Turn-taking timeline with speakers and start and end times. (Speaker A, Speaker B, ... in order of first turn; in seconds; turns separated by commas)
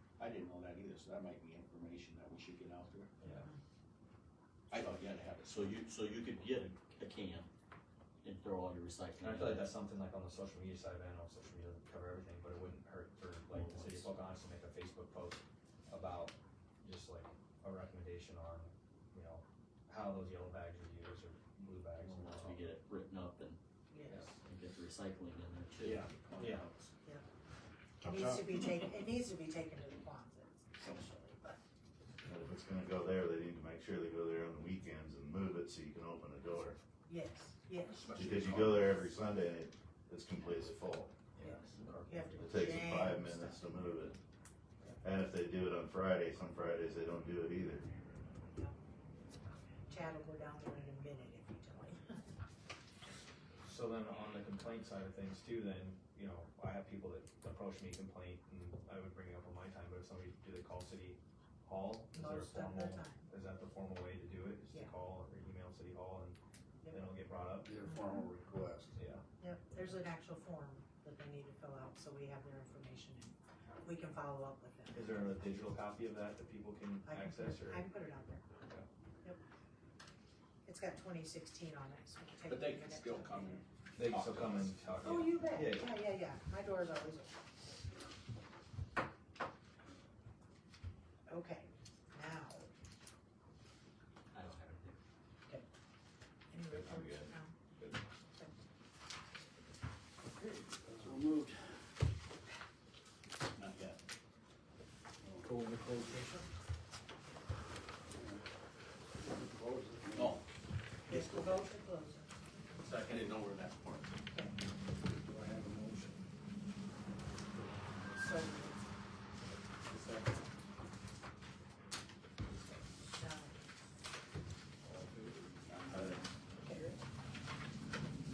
Speaker A: 0.2-3.1, Speaker B: 3.2-3.5, Speaker A: 4.7-5.8, Speaker C: 5.5-7.5, Speaker C: 8.2-9.8, Speaker D: 9.2-22.6, Speaker C: 13.5-14.2, Speaker C: 22.0-23.6, Speaker B: 23.9-24.3, Speaker C: 24.2-26.1, Speaker A: 25.8-26.9, Speaker E: 28.0-28.6, Speaker B: 28.0-31.5, Speaker A: 30.8-31.1, Speaker E: 32.2-36.8, Speaker B: 37.1-38.1, Speaker A: 37.8-39.1, Speaker E: 38.1-41.1, Speaker B: 41.4-44.2, Speaker D: 41.8-42.5, Speaker E: 42.4-44.1, Speaker E: 45.0-47.9, Speaker B: 49.9-52.2, Speaker D: 53.6-67.7, Speaker B: 62.1-63.3, Speaker F: 67.6-68.9, Speaker B: 67.8-68.3, Speaker D: 69.0-69.2, Speaker B: 69.4-75.5, Speaker D: 74.9-77.8, Speaker B: 77.0-78.4, Speaker B: 80.6-83.6, Speaker A: 82.4-85.0, Speaker D: 84.0-85.9, Speaker B: 85.0-87.3, Speaker B: 91.3-92.7, Speaker C: 94.3-95.0, Speaker B: 96.5-97.5, Speaker E: 96.7-97.3, Speaker A: 100.5-101.7, Speaker A: 103.5-104.0, Speaker F: 109.2-110.4, Speaker A: 110.1-110.4, Speaker A: 111.0-111.7, Speaker B: 111.1-112.3, Speaker A: 112.8-114.1, Speaker B: 114.3-114.5, Speaker F: 115.3-116.1, Speaker B: 118.1-118.8, Speaker B: 123.0-123.6, Speaker A: 125.7-126.2, Speaker B: 126.6-126.9